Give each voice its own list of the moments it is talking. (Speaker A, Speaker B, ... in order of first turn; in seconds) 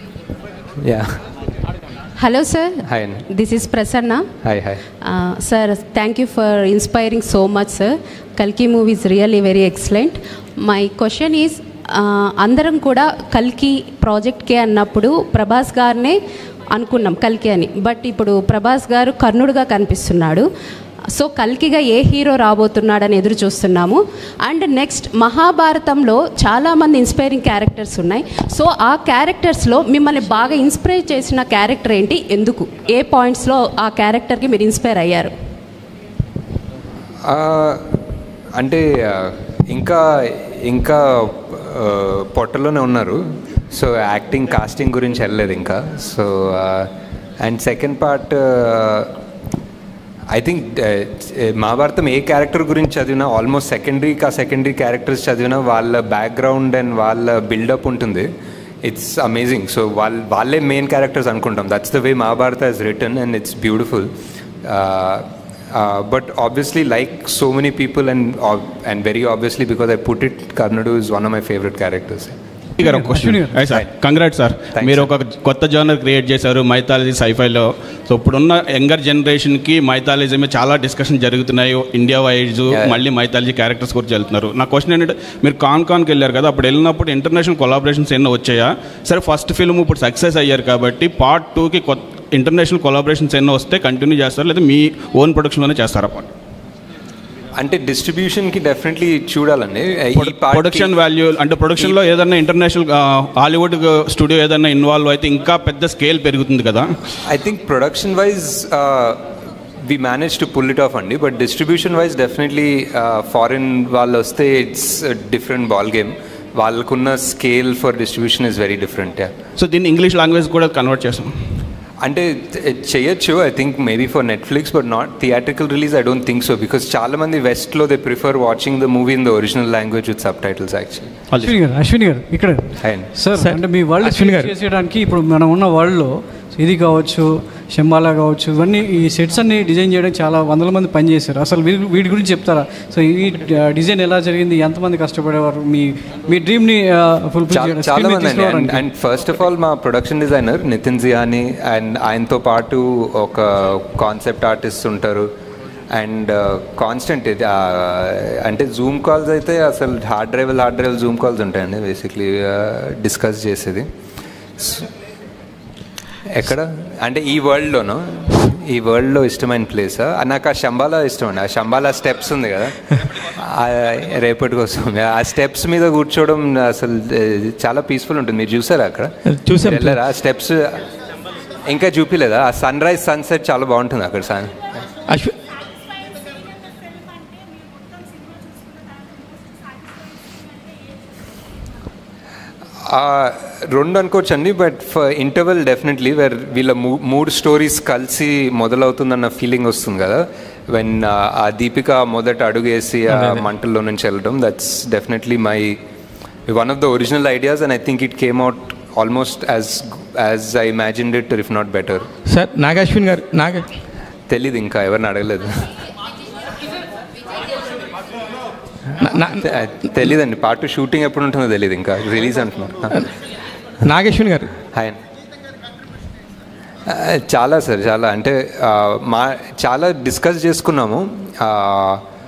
Speaker A: 0.8-1.1, 2.9-3.2, 4.5-4.8, 37.3-37.8, 38.6-43.2, 43.7-46.9, 47.4-49.1, 50.3-58.3, 58.9-64.1, 64.7-72.4, 73.6-73.9, 74.7-75.1, 82.7-83.1, 97.6-101.0, 101.7-102.0, 107.3-109.2, 109.9-119.3, 122.0-131.1, 132.8-133.1, 147.5-155.3, 155.9-163.9, 164.6-164.9, 166.3-180.8, 181.7-184.6, 192.9-205.8, 206.5-212.1, 214.3-215.7, 219.0-223.0, 226.9-232.0
Speaker B: 2.2-4.3, 5.0-16.2, 16.7-20.5, 21.1-35.3
Speaker C: 72.8-73.6, 131.4-148.8
Speaker D: 72.9-96.3, 100.3-102.8, 103.4-106.8, 119.6-121.2
Speaker E: 74.6-75.1, 80.4-81.0, 82.8-83.1, 100.9-102.5, 119.6-120.7, 133.3-134.5, 179.3-180.0, 185.1-185.3, 203.1-203.4, 212.3-213.7, 219.1-219.4, 223.8-224.5